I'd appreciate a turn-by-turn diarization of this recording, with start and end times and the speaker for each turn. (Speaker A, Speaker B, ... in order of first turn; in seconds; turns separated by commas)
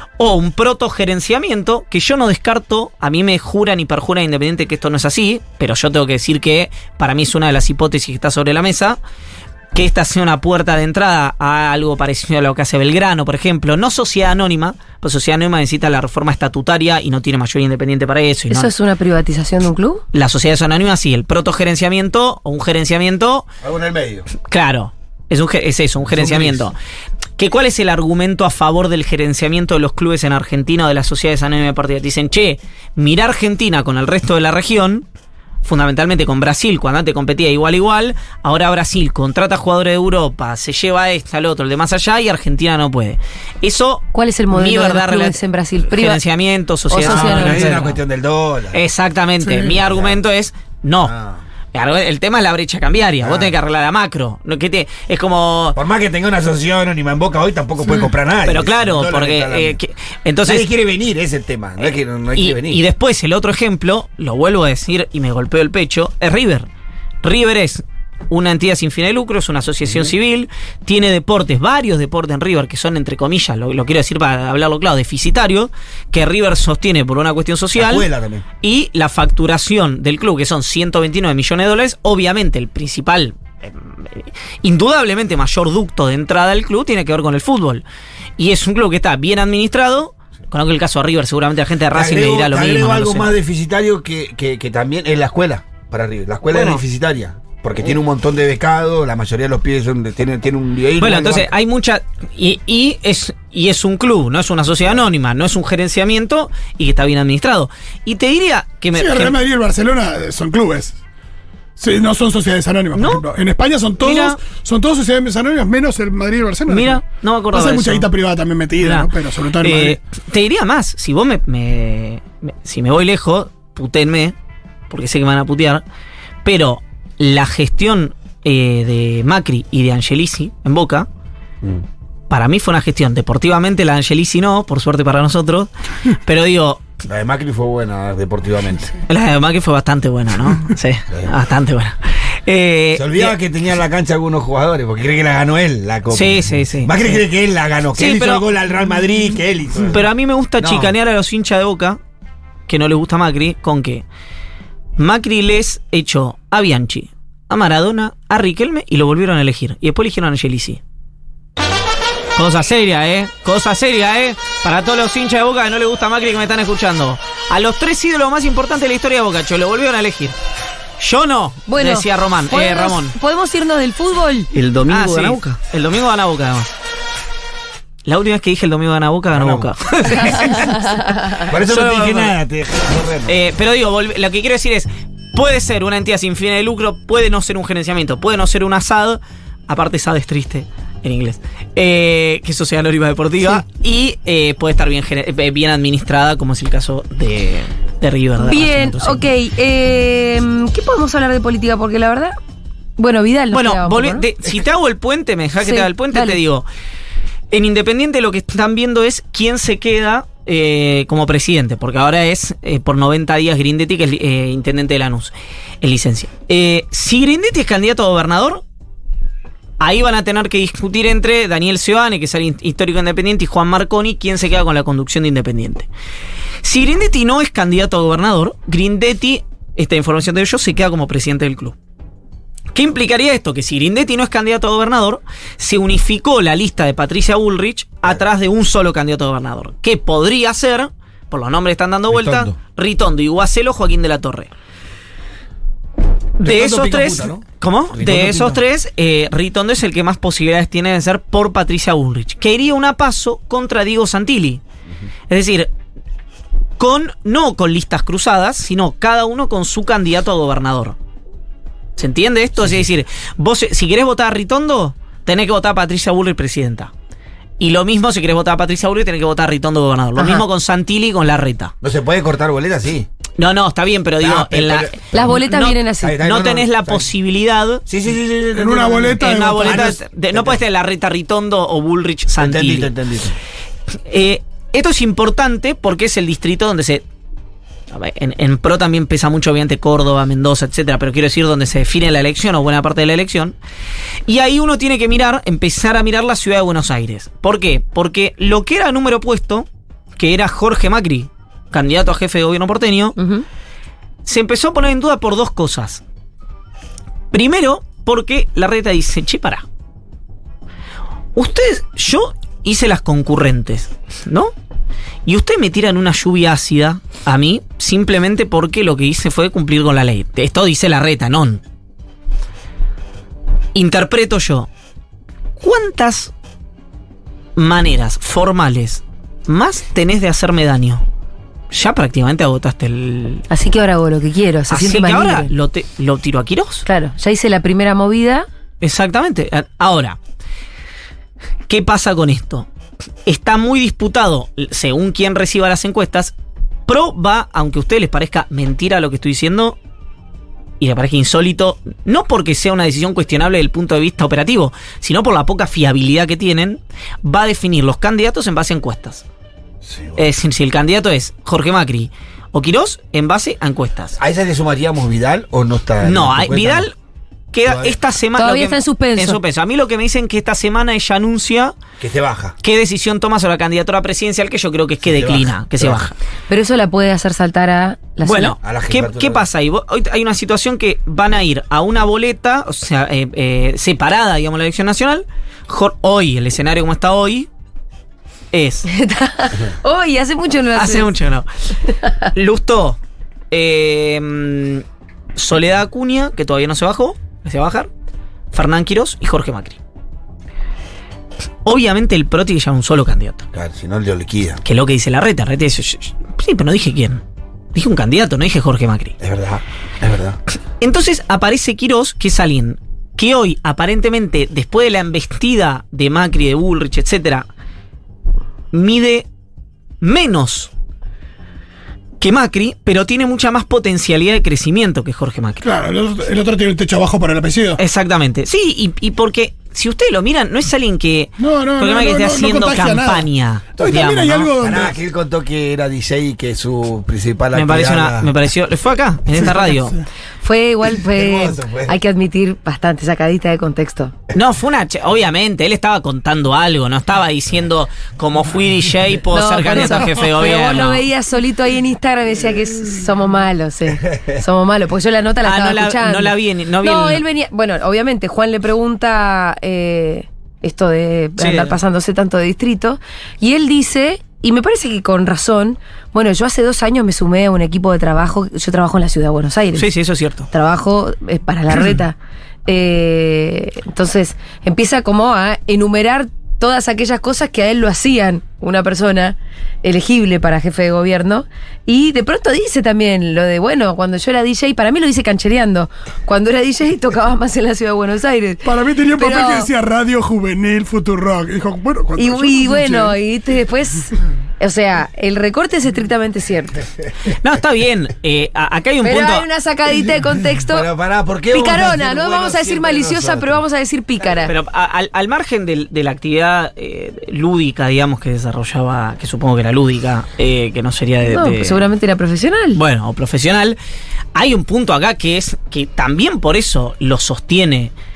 Speaker A: 0.2-9.0, Speaker A: 9.7-18.7, Speaker B: 18.5-20.0, Speaker A: 20.1-23.5, Speaker C: 23.6-24.3, Speaker A: 24.4-26.8, Speaker C: 26.0-26.7, Speaker A: 27.4-35.0, Speaker A: 35.6-48.0, Speaker B: 44.1-46.2, Speaker B: 46.9-47.9, Speaker C: 47.0-48.8, Speaker A: 48.7-51.1, Speaker C: 49.5-50.2, Speaker C: 51.0-51.4, Speaker A: 51.7-55.8, Speaker C: 53.2-53.5, Speaker C: 55.7-59.8, Speaker A: 58.4-60.6, Speaker C: 60.4-62.8, Speaker A: 62.3-66.7, Speaker A: 67.2-78.0, Speaker C: 69.8-70.1, Speaker C: 77.7-78.4, Speaker A: 78.6-87.8, Speaker A: 88.4-93.3, Speaker C: 91.9-101.5, Speaker A: 96.5-96.8, Speaker A: 101.0-109.4, Speaker D: 108.9-111.0, Speaker D: 111.8-117.0, Speaker A: 112.9-113.2, Speaker A: 114.0-114.4, Speaker A: 116.7-118.1, Speaker D: 117.5-120.0, Speaker A: 118.8-124.3, Speaker A: 124.9-125.8, Speaker A: 126.4-131.1, Speaker A: 132.3-136.8, Speaker C: 137.0-139.0, Speaker A: 139.1-143.3, Speaker C: 142.9-150.0, Speaker A: 146.1-147.1, Speaker A: 147.9-148.4, Speaker A: 149.8-152.0, Speaker C: 150.6-150.9, Speaker A: 152.7-154.0, Speaker A: 155.0-160.8, Speaker A: 162.3-170.3, Speaker A: 171.0-173.1, Speaker B: 171.7-174.5, Speaker C: 174.6-175.4, Speaker A: 174.8-176.7, Speaker A: 178.0-182.3, Speaker C: 179.3-180.5, Speaker B: 180.3-181.4, Speaker C: 181.5-183.4, Speaker A: 183.3-199.2, Speaker B: 198.4-202.3, Speaker B: 203.0-204.2, Speaker A: 203.5-206.6, Speaker B: 205.6-206.4, Speaker A: 207.5-218.6, Speaker A: 219.8-225.9, Speaker A: 226.6-231.8, Speaker A: 232.7-244.5, Speaker C: 242.1-242.6, Speaker A: 246.4-254.6, Speaker C: 246.4-248.6, Speaker A: 255.3-255.7, Speaker A: 256.8-260.9, Speaker A: 262.0-266.9, Speaker A: 267.6-271.7, Speaker B: 270.2-270.4, Speaker C: 271.8-273.1, Speaker A: 273.4-277.8, Speaker C: 274.2-275.3, Speaker B: 275.1-276.2, Speaker C: 276.0-277.1, Speaker C: 277.9-280.6, Speaker D: 278.6-280.0, Speaker A: 279.1-282.9, Speaker C: 282.4-283.4, Speaker A: 284.1-287.0, Speaker A: 287.9-293.5, Speaker A: 294.3-303.2, Speaker B: 303.2-303.4, Speaker A: 304.2-306.0, Speaker A: 307.3-309.6, Speaker A: 311.3-314.5, Speaker A: 315.2-321.6, Speaker A: 323.7-324.7, Speaker A: 325.6-326.3, Speaker A: 327.6-331.0, Speaker A: 331.7-333.4, Speaker B: 333.5-335.5, Speaker A: 334.7-336.8, Speaker B: 336.8-338.5, Speaker A: 338.8-340.2, Speaker A: 341.7-342.7, Speaker A: 343.2-346.3, Speaker A: 346.9-349.8, Speaker A: 350.8-359.2, Speaker C: 359.8-360.2, Speaker A: 360.2-364.2, Speaker C: 364.2-366.9, Speaker A: 366.0-366.9, Speaker A: 367.5-371.8, Speaker C: 367.6-368.0, Speaker B: 368.4-369.4, Speaker C: 372.0-372.6, Speaker A: 372.6-376.1, Speaker C: 375.0-376.0, Speaker B: 376.5-378.6, Speaker A: 378.2-387.5, Speaker C: 378.6-379.4, Speaker A: 388.5-388.9, Speaker B: 388.9-391.1, Speaker A: 390.7-391.5, Speaker A: 392.2-393.0, Speaker A: 393.5-394.8, Speaker A: 395.4-397.9, Speaker A: 398.5-399.8, Speaker A: 401.6-403.4, Speaker C: 403.5-404.6, Speaker A: 404.6-407.2, Speaker A: 407.7-409.1, Speaker C: 409.2-410.4, Speaker A: 410.8-417.5, Speaker A: 418.7-419.2, Speaker A: 420.0-420.7, Speaker A: 422.2-425.6, Speaker D: 425.6-427.8, Speaker A: 427.8-434.5, Speaker D: 431.4-434.9, Speaker C: 433.8-438.3, Speaker A: 437.5-440.0, Speaker B: 440.4-444.1, Speaker C: 441.1-441.9, Speaker A: 444.3-451.0, Speaker B: 449.3-469.9, Speaker A: 455.4-457.2, Speaker A: 461.4-461.8, Speaker A: 469.8-470.5, Speaker B: 470.5-489.7, Speaker D: 488.6-493.1, Speaker B: 492.2-496.8, Speaker A: 497.3-499.5, Speaker B: 499.0-500.9, Speaker C: 500.6-503.6, Speaker B: 501.5-504.5, Speaker A: 504.4-511.8, Speaker B: 511.2-512.8, Speaker A: 512.7-513.8, Speaker A: 514.3-517.9